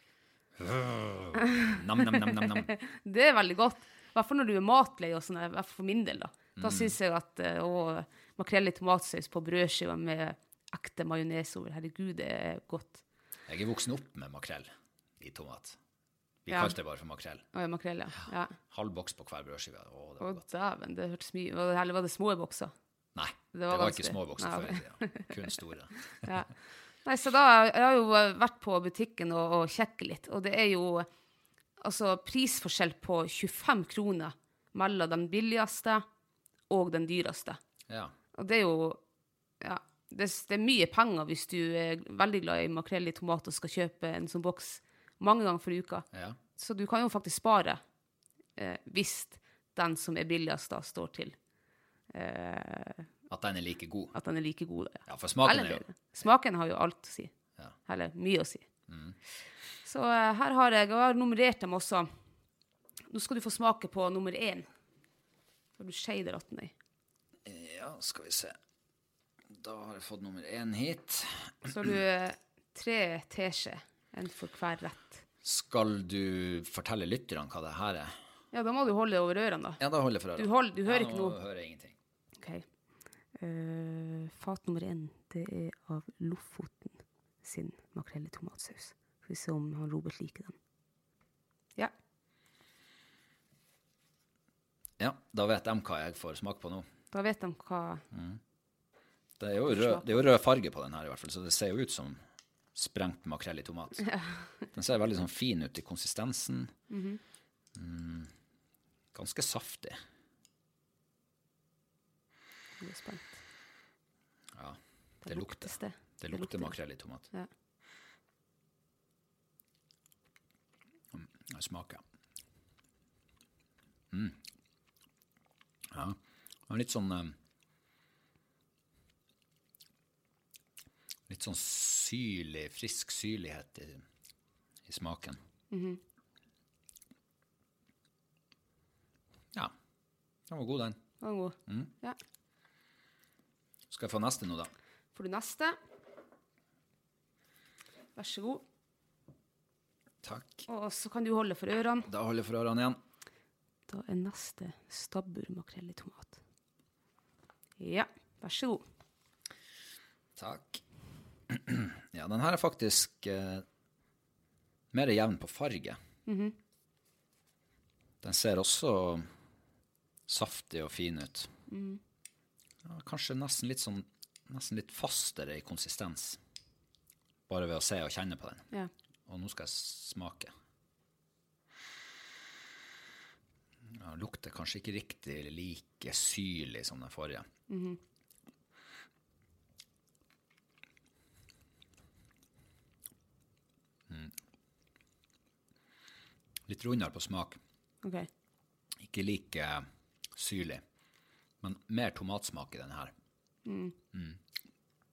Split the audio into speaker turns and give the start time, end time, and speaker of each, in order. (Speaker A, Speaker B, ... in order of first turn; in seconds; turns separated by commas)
Speaker A: 0.6-2.7, Speaker B: 1.6-13.0, Speaker A: 6.6-6.9, Speaker A: 13.5-14.7, Speaker A: 15.2-15.8, Speaker A: 16.4-17.4, Speaker B: 16.5-16.8, Speaker B: 17.5-18.5, Speaker A: 18.7-20.4, Speaker B: 20.2-22.7, Speaker A: 23.1-26.3, Speaker B: 23.5-25.3, Speaker B: 26.2-26.5, Speaker B: 27.0-31.1, Speaker B: 31.8-36.0, Speaker B: 36.7-37.6, Speaker A: 37.9-38.1, Speaker B: 38.3-39.0, Speaker B: 39.6-46.0, Speaker A: 46.1-46.4, Speaker B: 46.6-47.8, Speaker B: 48.6-51.4, Speaker B: 52.1-53.1, Speaker A: 53.3-54.1, Speaker B: 54.1-57.3, Speaker A: 55.1-55.8, Speaker B: 57.9-58.6, Speaker A: 58.9-59.1, Speaker B: 59.8-62.1, Speaker B: 63.1-64.7, Speaker B: 65.8-66.7, Speaker A: 67.5-68.5, Speaker A: 69.5-72.0, Speaker B: 71.7-75.2, Speaker A: 75.4-78.2, Speaker B: 78.5-79.8, Speaker A: 79.8-81.9, Speaker B: 80.4-81.3, Speaker B: 82.4-82.6, Speaker B: 83.4-90.5, Speaker A: 95.0-96.9, Speaker B: 97.1-98.0, Speaker A: 98.1-98.4, Speaker A: 99.4-102.2, Speaker B: 99.7-100.1, Speaker A: 102.7-104.1, Speaker A: 104.7-106.7, Speaker B: 106.9-107.2, Speaker A: 107.8-108.3, Speaker A: 109.1-110.0, Speaker B: 112.8-113.4, Speaker A: 114.5-117.3, Speaker B: 115.2-116.8, Speaker A: 121.1-122.0, Speaker A: 124.1-124.4, Speaker A: 125.9-126.2, Speaker A: 126.7-127.3, Speaker A: 131.3-134.0, Speaker A: 134.8-135.4, Speaker B: 135.7-136.0, Speaker A: 140.5-141.0, Speaker B: 141.2-142.2, Speaker A: 143.9-144.7, Speaker B: 145.1-145.8, Speaker B: 148.2-148.6, Speaker A: 150.2-150.6, Speaker B: 150.7-152.1, Speaker A: 152.1-153.0, Speaker B: 153.9-156.4, Speaker B: 157.8-158.8, Speaker A: 160.3-160.8, Speaker A: 161.5-163.6, Speaker A: 164.9-166.0, Speaker B: 166.3-166.5, Speaker A: 168.2-169.3, Speaker A: 170.3-171.5, Speaker B: 171.7-172.0, Speaker A: 172.8-176.4, Speaker A: 177.5-178.7, Speaker A: 179.3-180.5, Speaker A: 183.9-187.4, Speaker B: 187.7-188.0, Speaker A: 196.7-197.6, Speaker B: 198.0-198.3, Speaker A: 199.0-200.8, Speaker A: 201.6-203.1, Speaker B: 203.7-203.9, Speaker A: 204.1-204.4